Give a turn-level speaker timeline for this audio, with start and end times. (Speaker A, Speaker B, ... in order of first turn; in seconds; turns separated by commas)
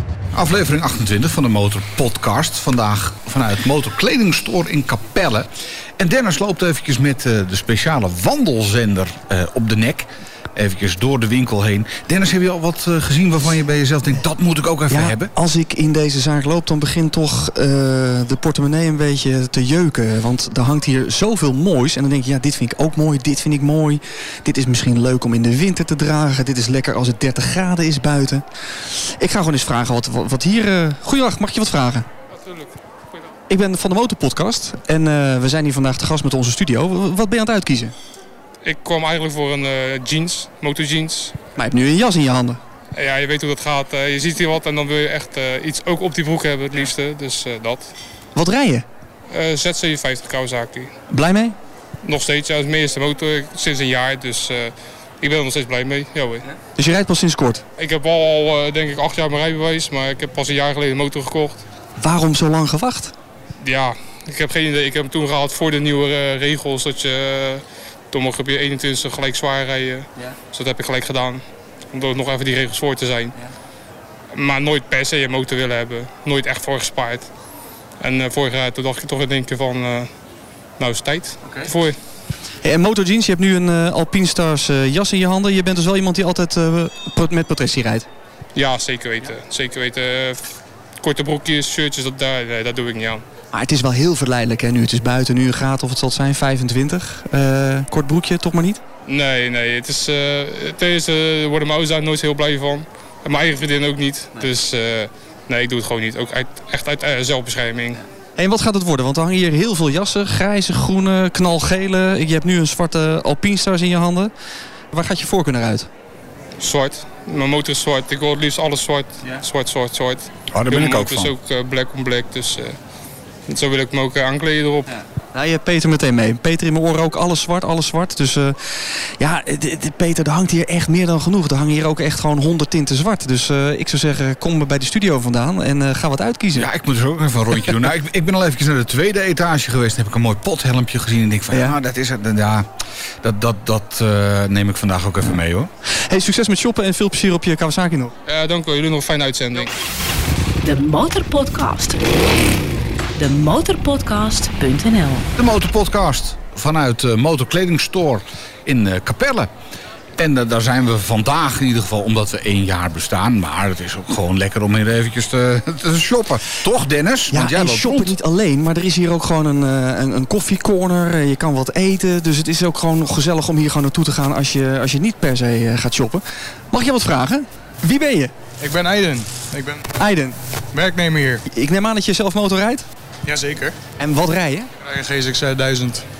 Speaker A: 0.3-15.3, Speaker B: 14.9-32.1, Speaker C: 32.3-33.3, Speaker B: 33.5-37.9, Speaker C: 38.6-41.4, Speaker B: 41.6-42.6, Speaker C: 42.9-47.9, Speaker B: 48.4-48.9, Speaker C: 49.3-50.9, Speaker B: 51.1-51.6, Speaker C: 52.0-56.5, Speaker B: 56.8-57.6, Speaker C: 57.8-61.6, Speaker B: 62.0-63.1, Speaker C: 63.6-73.3, Speaker C: 74.3-77.3, Speaker C: 78.0-80.1, Speaker C: 80.8-82.0, Speaker B: 81.4-81.7, Speaker B: 82.6-88.1, Speaker C: 88.5-93.2, Speaker B: 93.5-98.8, Speaker C: 99.1-108.0, Speaker B: 108.4-114.3, Speaker B: 114.9-115.9, Speaker C: 116.6-122.8, Speaker A: 120.5-121.3, Speaker C: 123.5-124.9, Speaker B: 124.9-136.7, Speaker A: 136.6-142.7, Speaker B: 141.5-141.8, Speaker A: 143.2-145.7, Speaker B: 145.9-148.1, Speaker C: 148.3-149.7, Speaker D: 150.6-152.0, Speaker D: 153.2-155.3, Speaker A: 155.4-159.5, Speaker A: 160.2-168.1, Speaker B: 167.3-178.3, Speaker E: 178.6-179.9, Speaker B: 180.0-180.4, Speaker E: 180.7-181.4, Speaker B: 181.5-182.9, Speaker E: 183.3-183.8, Speaker B: 184.0-184.7, Speaker E: 184.8-186.0